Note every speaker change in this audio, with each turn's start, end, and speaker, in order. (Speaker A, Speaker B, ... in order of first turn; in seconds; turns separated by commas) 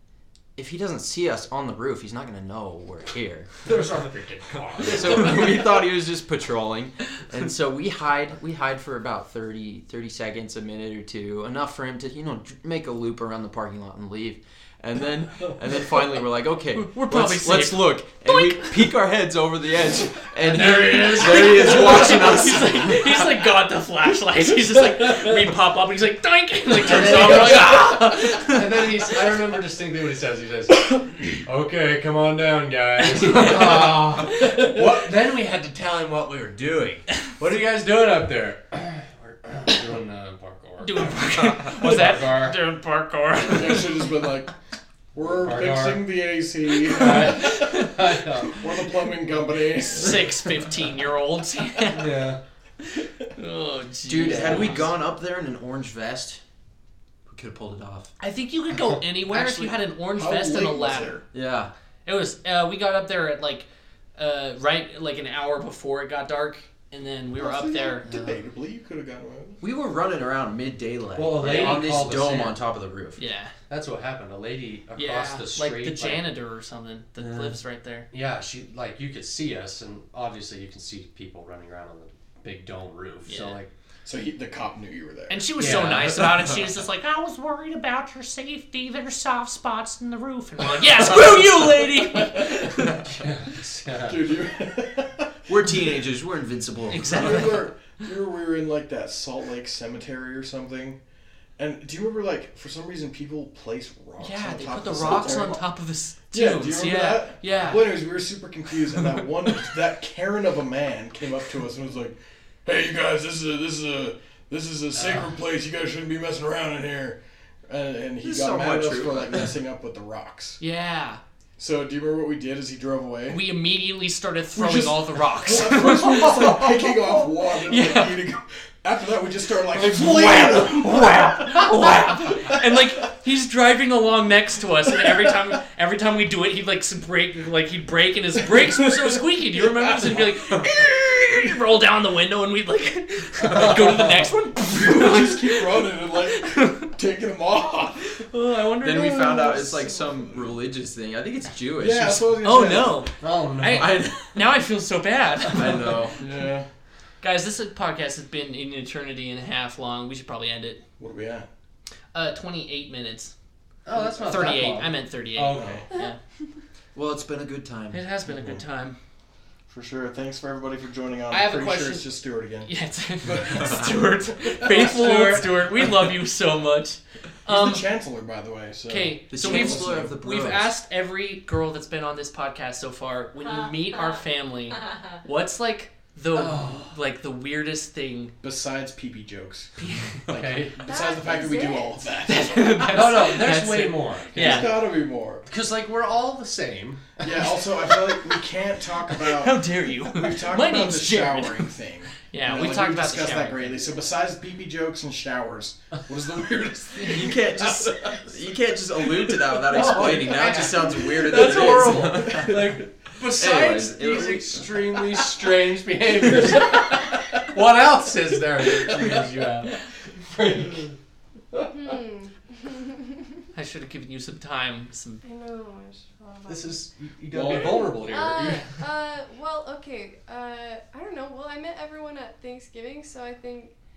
Speaker A: 0.6-3.6, Speaker B: 3.6-5.7, Speaker A: 4.8-23.2, Speaker C: 16.7-18.9, Speaker C: 20.5-29.1, Speaker B: 20.6-21.6, Speaker B: 26.8-42.6, Speaker C: 33.2-34.6, Speaker C: 40.8-44.1, Speaker D: 43.4-44.5, Speaker D: 45.1-47.8, Speaker B: 45.2-46.1, Speaker B: 46.9-48.7, Speaker C: 46.9-48.6, Speaker D: 48.5-50.4, Speaker C: 49.8-52.1, Speaker B: 51.9-52.4, Speaker C: 53.3-54.9, Speaker A: 54.0-56.4, Speaker B: 54.1-54.8, Speaker A: 57.3-58.1, Speaker C: 58.2-61.2, Speaker A: 59.3-59.7, Speaker D: 60.1-61.2, Speaker A: 61.3-61.7, Speaker C: 62.0-68.1, Speaker D: 67.3-69.6, Speaker A: 68.0-68.4, Speaker A: 69.6-73.2, Speaker B: 71.1-72.6, Speaker C: 73.2-73.5, Speaker B: 73.7-76.2, Speaker C: 75.0-78.1, Speaker A: 77.2-77.5, Speaker B: 78.1-83.7, Speaker C: 83.3-83.6, Speaker D: 84.0-85.8, Speaker C: 85.3-93.1, Speaker B: 85.6-86.6, Speaker B: 92.8-94.3, Speaker D: 94.0-95.3, Speaker A: 95.5-97.5, Speaker C: 96.9-97.7, Speaker D: 97.1-101.0, Speaker D: 101.6-105.6, Speaker C: 104.2-108.0, Speaker D: 106.3-120.6, Speaker A: 118.2-119.5, Speaker C: 120.6-121.2, Speaker D: 121.6-123.4, Speaker C: 123.3-128.2, Speaker D: 124.5-132.8, Speaker B: 126.2-126.4, Speaker C: 129.7-146.9, Speaker B: 129.8-130.3, Speaker B: 131.7-132.3, Speaker D: 138.5-140.6, Speaker B: 143.4-144.3, Speaker D: 144.6-148.3, Speaker C: 148.2-149.6, Speaker A: 148.8-152.5, Speaker D: 148.9-150.5, Speaker D: 151.8-153.1, Speaker C: 152.4-156.2, Speaker B: 153.2-154.0, Speaker A: 153.7-154.1, Speaker A: 155.5-156.2, Speaker D: 156.2-156.7, Speaker C: 157.2-160.8, Speaker D: 161.0-161.5, Speaker C: 162.1-163.3, Speaker B: 163.8-165.9, Speaker C: 164.2-166.2, Speaker D: 165.5-165.8, Speaker A: 166.9-168.0, Speaker C: 167.9-169.0, Speaker D: 169.7-172.7, Speaker C: 171.3-172.1, Speaker C: 172.6-177.9, Speaker D: 173.2-173.9, Speaker D: 174.6-175.4, Speaker B: 174.9-175.4, Speaker D: 177.5-180.1, Speaker C: 178.9-188.3, Speaker A: 179.3-180.7, Speaker B: 186.3-186.9, Speaker D: 188.4-192.9, Speaker C: 189.8-190.3, Speaker B: 190.3-190.8, Speaker E: 190.8-192.3, Speaker C: 192.2-194.7, Speaker B: 192.8-194.9, Speaker D: 194.3-195.4, Speaker B: 195.4-197.5, Speaker D: 197.2-207.4, Speaker C: 197.8-198.3, Speaker C: 199.1-203.8, Speaker B: 207.0-207.9, Speaker A: 207.0-215.0, Speaker B: 209.5-220.9, Speaker D: 210.9-212.6, Speaker E: 221.6-223.3, Speaker C: 223.5-225.2, Speaker E: 225.2-233.7, Speaker B: 226.4-228.8, Speaker D: 227.3-228.0